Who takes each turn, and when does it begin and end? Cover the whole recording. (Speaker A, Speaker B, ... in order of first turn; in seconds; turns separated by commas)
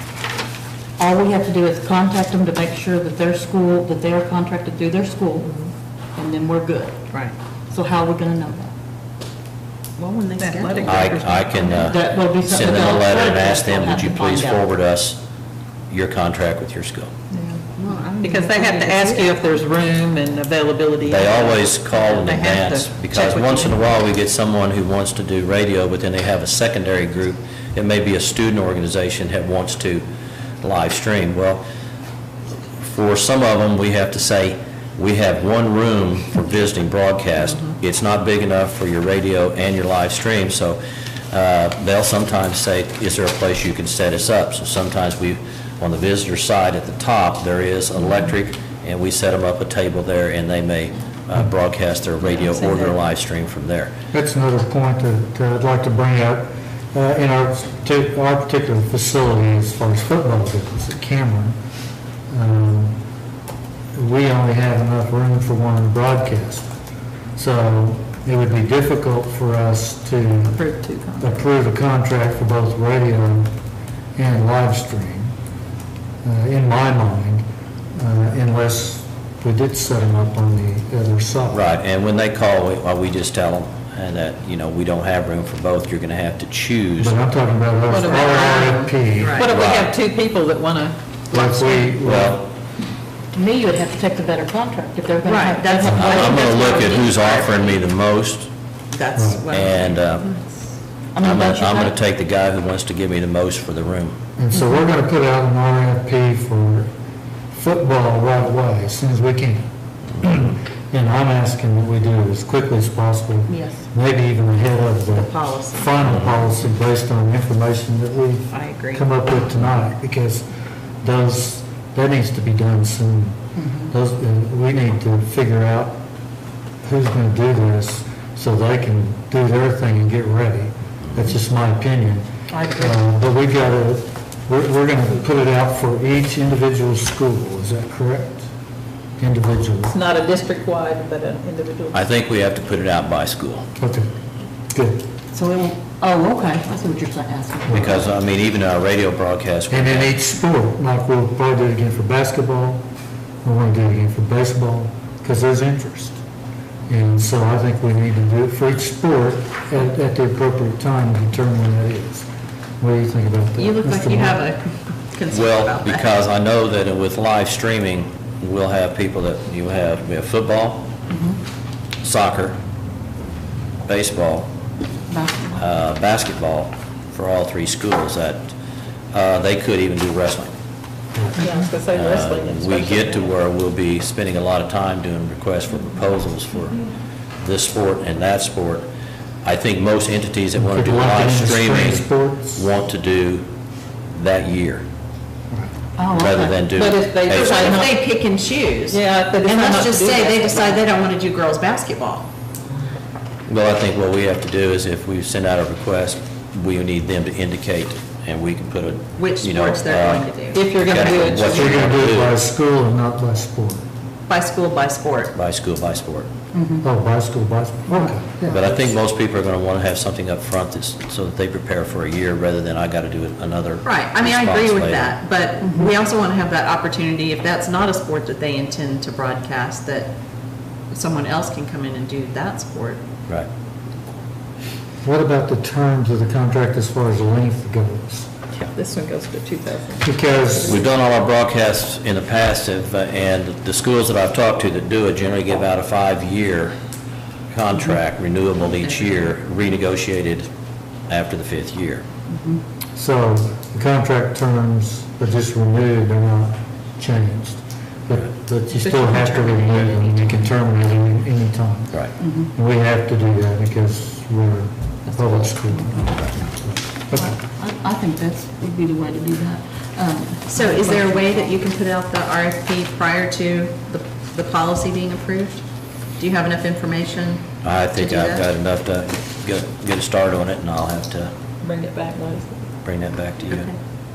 Speaker A: 1.0-5.5, Speaker A: 6.2-7.0, Speaker A: 7.7-8.7, Speaker B: 10.0-11.2, Speaker C: 10.4-11.7, Speaker D: 10.8-15.2, Speaker A: 11.7-14.7, Speaker D: 15.9-17.1, Speaker C: 17.3-17.6, Speaker B: 17.7-19.2, Speaker C: 18.2-23.8, Speaker D: 21.0-30.0, Speaker D: 30.6-31.6, Speaker D: 32.8-40.8, Speaker D: 41.3-53.9, Speaker B: 52.4-52.9, Speaker E: 54.1-61.6, Speaker E: 62.3-63.0, Speaker E: 64.0-66.7, Speaker E: 67.3-70.6, Speaker C: 70.5-71.4, Speaker E: 71.2-73.5, Speaker E: 74.2-75.3, Speaker E: 76.2-77.4, Speaker E: 78.0-81.6, Speaker D: 81.5-87.2, Speaker E: 87.0-89.5, Speaker C: 87.9-91.0, Speaker B: 89.1-89.5, Speaker D: 89.5-89.9, Speaker E: 91.3-92.5, Speaker A: 91.4-91.8, Speaker D: 92.0-92.5, Speaker A: 93.3-97.0, Speaker B: 95.2-97.8, Speaker D: 95.9-98.5, Speaker B: 98.9-100.5, Speaker E: 99.2-99.5, Speaker D: 99.5-100.3, Speaker A: 101.1-101.9, Speaker D: 101.2-104.2, Speaker E: 104.4-106.9, Speaker A: 104.5-104.9, Speaker E: 107.5-109.7, Speaker E: 110.2-120.4, Speaker A: 113.5-113.8, Speaker B: 115.1-115.9, Speaker B: 118.5-119.0, Speaker E: 121.0-126.0, Speaker A: 123.5-123.9, Speaker E: 126.8-138.5, Speaker A: 132.5-133.0, Speaker E: 139.2-139.9, Speaker C: 139.9-142.0, Speaker D: 141.9-143.7, Speaker E: 143.8-144.1, Speaker E: 144.7-145.0, Speaker A: 145.3-148.1, Speaker D: 147.7-150.1, Speaker E: 147.7-148.0, Speaker E: 149.7-152.8, Speaker E: 153.4-156.2, Speaker E: 156.9-162.3, Speaker E: 162.8-164.4, Speaker B: 163.6-166.1, Speaker D: 165.3-170.9, Speaker A: 171.1-171.4, Speaker D: 172.0-172.6, Speaker D: 173.8-174.5, Speaker A: 175.1-175.6, Speaker D: 175.6-178.5, Speaker D: 179.1-180.5, Speaker E: 181.1-181.4, Speaker C: 181.4-183.3, Speaker D: 181.9-186.8, Speaker D: 187.4-188.9, Speaker D: 189.4-193.4, Speaker E: 190.6-192.7, Speaker D: 194.1-194.8, Speaker A: 196.0-196.7, Speaker D: 196.1-197.8, Speaker C: 196.7-198.0, Speaker B: 197.2-202.2, Speaker C: 198.9-200.8, Speaker D: 203.5-212.3, Speaker B: 209.2-211.4, Speaker C: 210.5-211.9, Speaker E: 211.4-213.8, Speaker B: 214.3-215.3, Speaker D: 215.3-216.3, Speaker A: 216.5-216.8, Speaker E: 216.8-218.9, Speaker A: 217.9-218.1, Speaker D: 218.5-225.2, Speaker B: 223.8-230.1, Speaker A: 225.6-225.9, Speaker B: 230.9-233.0, Speaker E: 235.0-238.3, Speaker C: 238.7-240.3, Speaker E: 240.0-240.8, Speaker D: 240.6-246.7, Speaker D: 247.5-250.5, Speaker D: 251.1-252.0, Speaker A: 252.3-252.6, Speaker E: 252.9-262.0, Speaker B: 259.0-259.5, Speaker A: 259.2-260.2, Speaker A: 262.2-262.5, Speaker E: 262.5-267.3, Speaker A: 265.1-265.4, Speaker A: 267.1-271.6, Speaker B: 270.5-275.6, Speaker B: 276.2-278.4, Speaker D: 277.6-281.3, Speaker C: 281.6-282.7, Speaker D: 282.8-283.7, Speaker B: 283.5-283.8